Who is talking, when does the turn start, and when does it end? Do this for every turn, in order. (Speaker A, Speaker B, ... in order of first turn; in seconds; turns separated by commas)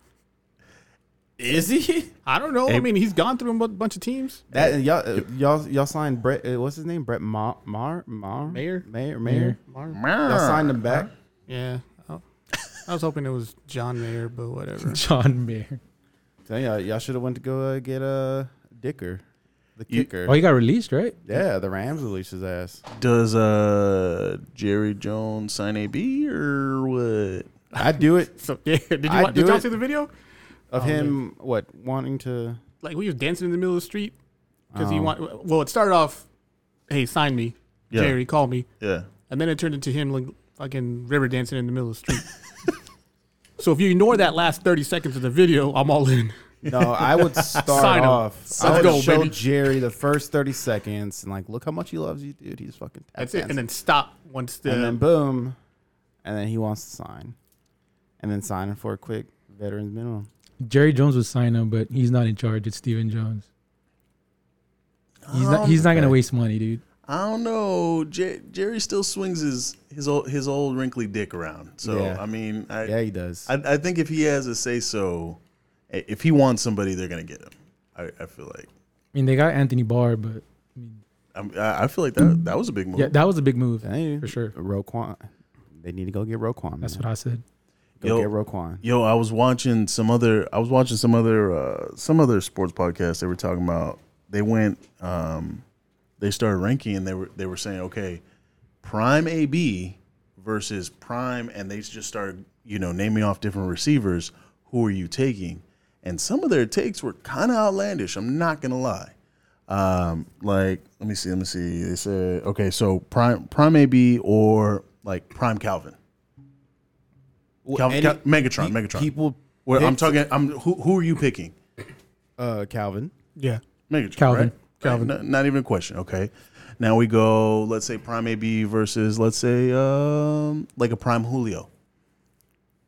Speaker A: 1.4-2.1, Speaker B: 2.3-4.5, Speaker A: 4.5-9.6, Speaker B: 8.5-8.9, Speaker C: 9.3-9.6, Speaker B: 9.6-10.0, Speaker D: 9.9-11.1, Speaker A: 10.2-11.1, Speaker B: 11.5-12.2, Speaker B: 12.8-15.0, Speaker C: 14.8-15.8, Speaker A: 16.5-19.2, Speaker A: 19.8-20.4, Speaker C: 20.3-21.2, Speaker A: 21.3-22.8, Speaker D: 22.9-27.5, Speaker A: 27.8-28.4, Speaker B: 28.4-30.1, Speaker A: 29.1-29.7, Speaker A: 30.7-32.6, Speaker B: 30.8-31.2, Speaker B: 32.8-34.1, Speaker A: 34.7-35.2, Speaker B: 34.8-36.3, Speaker B: 36.9-38.7, Speaker D: 37.9-38.2, Speaker D: 38.8-39.1, Speaker B: 39.3-42.3, Speaker B: 43.6-49.4, Speaker A: 46.6-53.6, Speaker D: 48.6-49.3, Speaker B: 53.2-55.0, Speaker A: 54.7-55.6, Speaker A: 56.2-57.4, Speaker A: 58.2-60.3, Speaker C: 60.6-63.5, Speaker D: 65.3-66.2, Speaker C: 65.3-66.8, Speaker D: 67.1-72.9, Speaker A: 71.8-72.2, Speaker A: 72.8-73.5, Speaker D: 73.5-75.4, Speaker D: 75.9-78.7, Speaker C: 79.1-81.0, Speaker D: 81.3-83.2, Speaker C: 83.0-84.5, Speaker A: 83.8-87.1, Speaker C: 86.8-87.4, Speaker A: 88.0-88.8, Speaker D: 88.0-88.3, Speaker D: 88.8-95.6, Speaker D: 96.2-98.2, Speaker D: 98.8-109.1, Speaker D: 109.7-116.0, Speaker A: 117.7-120.2, Speaker D: 117.8-119.1, Speaker D: 119.7-121.5, Speaker A: 122.4-123.1, Speaker B: 123.4-123.6, Speaker D: 123.9-131.7, Speaker C: 124.2-124.5